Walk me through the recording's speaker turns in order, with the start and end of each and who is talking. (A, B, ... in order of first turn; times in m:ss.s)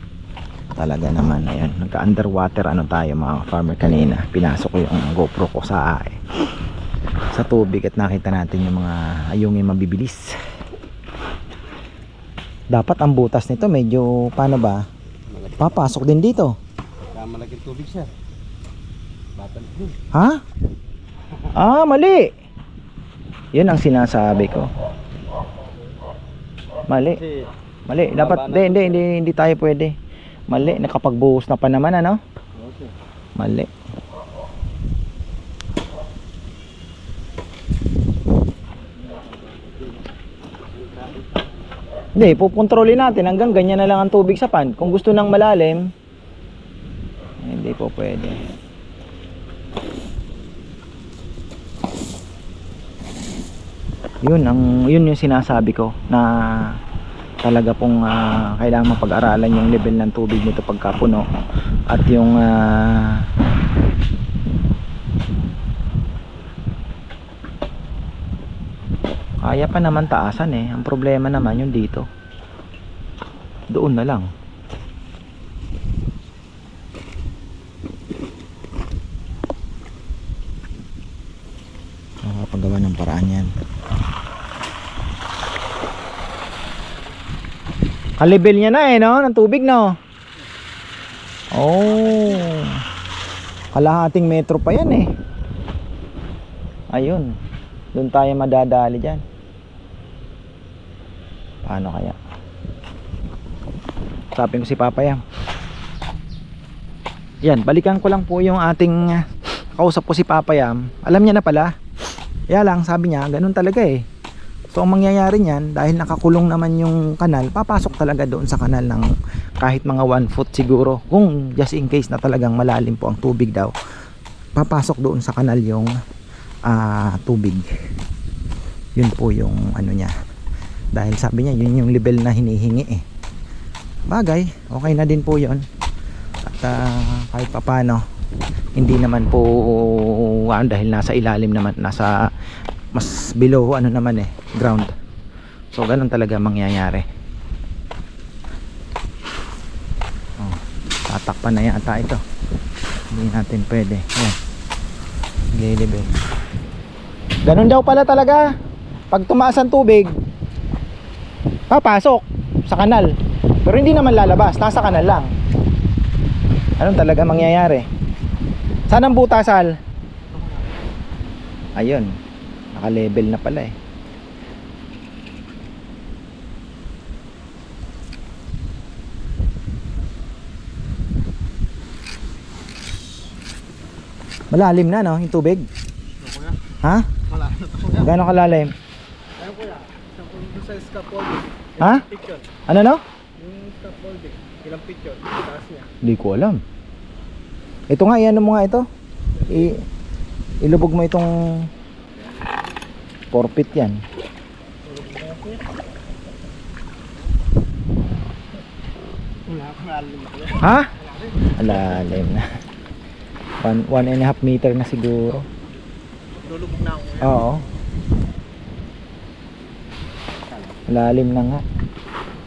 0:00.8-0:06.2 A
0:07.3-0:10.4 A
0:12.7-0:14.8 A
0:15.3-0:15.8 B
0:15.6-0:16.6 A
0:17.1-0:18.1 B
0:19.4-0:20.0 B
0:20.1-0:20.4 A
0:21.6-0:22.3 A
0:23.5-0:24.7 A
0:26.9-0:27.2 A
0:27.2-0:27.5 B
0:27.9-0:29.9 A
0:28.1-0:29.0 B
0:30.5-0:32.2 A
0:32.6-0:32.9 B
0:33.4-0:33.7 A
0:40.8-0:41.2 B
0:42.2-0:45.9 A
0:47.4-0:48.5 A
0:54.2-0:56.8 A
0:57.4-1:01.3 A
1:01.9-1:03.3 A
1:09.4-1:12.1 A
1:13.7-1:14.3 A
1:22.2-1:23.5 A
1:28.2-1:30.0 A
1:31.5-1:32.8 A
1:33.7-1:35.1 A
1:36.9-1:37.4 A
1:37.9-1:39.2 A
1:41.6-1:42.2 A
1:44.4-1:45.2 A
1:47.4-1:51.7 A
1:52.5-1:54.0 A
1:54.7-2:03.7 A
2:04.6-2:05.9 A
2:06.7-2:07.7 A
2:09.0-2:10.1 A
2:10.9-2:13.0 A
2:14.1-2:15.7 A
2:16.4-2:18.0 A
2:18.8-2:22.3 A
2:22.9-2:24.9 A
2:25.7-2:27.0 A
2:30.4-2:32.2 A
2:33.1-2:34.4 A
2:35.6-2:36.1 A
2:37.5-2:38.5 A
2:39.1-2:40.1 A
2:41.7-2:45.3 A
2:46.8-2:47.9 A
2:48.9-2:49.7 A
2:51.8-2:52.1 A
2:52.7-2:53.7 A
3:04.5-3:05.7 A
3:06.2-3:06.6 C
3:06.8-3:07.1 A
3:07.3-3:08.0 C
3:07.9-3:08.7 A
3:09.4-3:12.5 C
3:11.8-3:12.0 A
3:12.7-3:13.0 A
3:13.4-3:15.9 C
3:16.0-3:16.6 A
3:17.9-3:18.9 A
3:19.4-3:19.8 A
3:20.6-3:21.7 A
3:23.3-3:24.0 A
3:24.8-3:25.6 C
3:29.5-3:31.6 C
3:30.6-3:30.9 A
3:31.6-3:32.5 A
3:33.6-3:35.5 A
3:36.4-3:37.6 C
3:37.2-3:37.7 A
3:40.9-3:41.6 A